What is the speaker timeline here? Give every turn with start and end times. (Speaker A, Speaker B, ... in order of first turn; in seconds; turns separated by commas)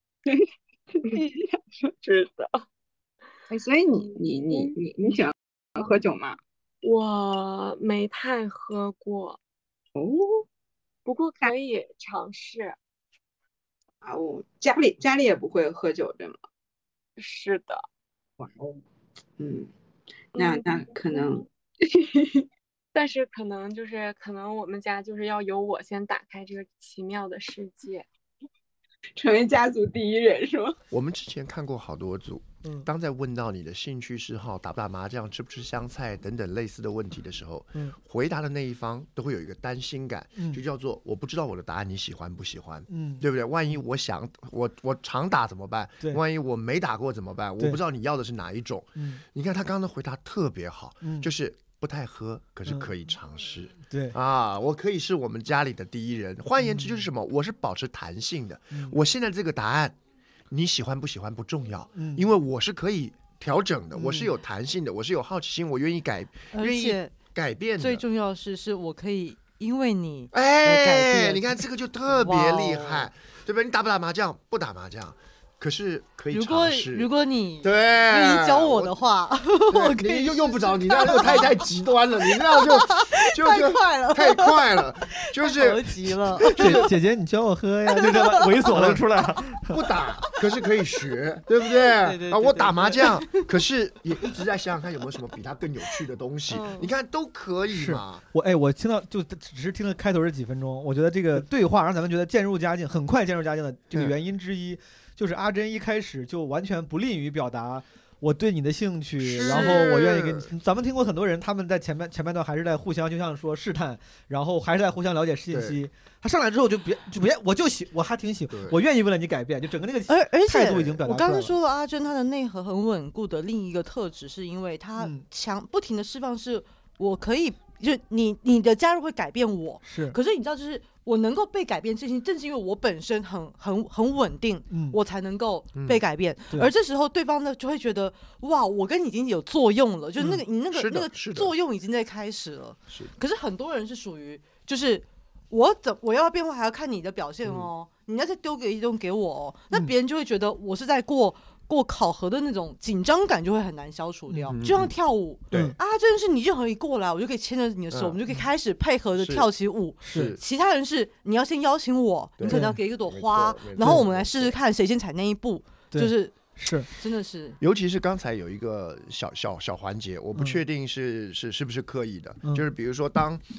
Speaker A: 0.2-1.9, Speaker B: 2.0-2.5, Speaker A: 3.5-6.4, Speaker B: 6.8-9.4, Speaker A: 9.9-10.4, Speaker B: 11.1-12.8, Speaker A: 14.0-16.4, Speaker B: 17.2-17.8, Speaker A: 18.4-18.8, Speaker A: 19.4-19.7, Speaker A: 20.4-22.4, Speaker B: 20.4-21.4, Speaker B: 22.9-28.0, Speaker A: 29.2-30.8, Speaker C: 30.9-59.9, Speaker D: 42.9-43.2, Speaker D: 49.0-49.2, Speaker D: 51.0-51.3, Speaker D: 53.9-54.1, Speaker D: 56.6-57.0, Speaker C: 60.5-68.0, Speaker D: 61.9-62.3, Speaker D: 64.0-64.3, Speaker E: 66.5-67.1, Speaker E: 67.8-73.1, Speaker C: 70.3-77.1, Speaker E: 76.3-81.6, Speaker C: 77.6-79.0, Speaker C: 79.7-86.8, Speaker E: 82.2-86.9, Speaker D: 86.4-89.8, Speaker E: 87.9-88.7, Speaker C: 88.7-89.0, Speaker C: 89.7-98.2, Speaker E: 91.9-93.5, Speaker E: 96.5-96.9, Speaker D: 97.7-121.5, Speaker C: 109.2-110.5, Speaker E: 109.5-109.7, Speaker C: 115.5-115.8, Speaker C: 118.5-118.8, Speaker E: 120.1-167.6, Speaker D: 125.0-125.2, Speaker D: 129.8-130.2, Speaker D: 134.7-135.0, Speaker C: 135.8-136.0, Speaker C: 140.7-141.5, Speaker C: 147.4-147.7, Speaker C: 154.5-154.9, Speaker C: 157.9-158.2, Speaker C: 159.2-159.5, Speaker D: 160.0-160.3, Speaker C: 160.1-160.4, Speaker C: 162.4-164.5, Speaker D: 162.5-162.8, Speaker D: 165.9-166.9, Speaker C: 167.6-173.4